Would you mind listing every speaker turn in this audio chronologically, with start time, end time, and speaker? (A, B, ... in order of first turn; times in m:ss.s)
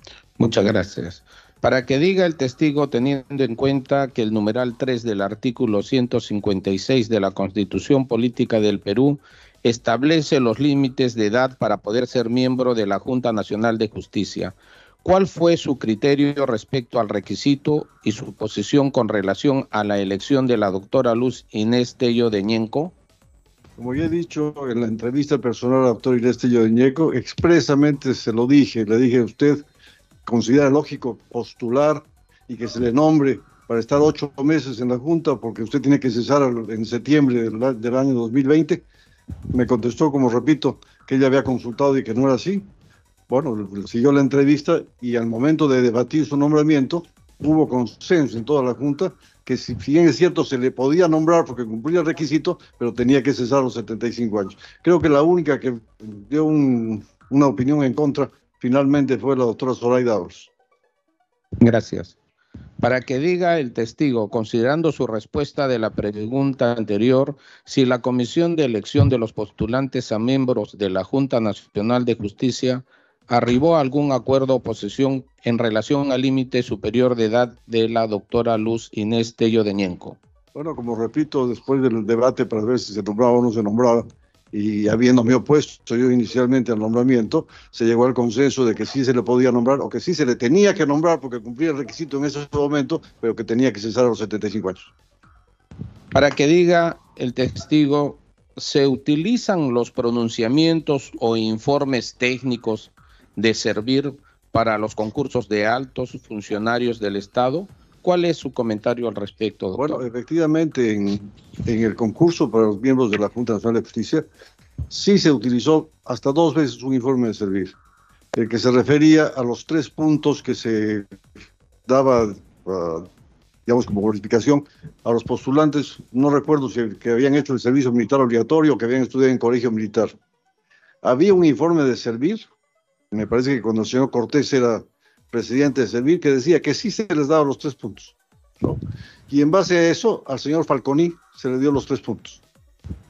0:00.4-0:22.9 A
0:23.8-0:29.6 B
0:30.2-0:38.8 B
0:39.5-0:42.7 B
0:43.3-1:00.5 B
1:01.6-1:02.1 A
1:02.8-1:20.2 A
1:20.5-1:34.9 B
1:36.1-1:50.0 A
1:49.8-1:54.3 B
1:54.9-1:57.7 B
1:58.3-2:01.1 B
2:01.8-2:03.1 B
2:03.6-2:10.1 B
2:11.0-2:12.5 B
2:13.1-2:22.4 B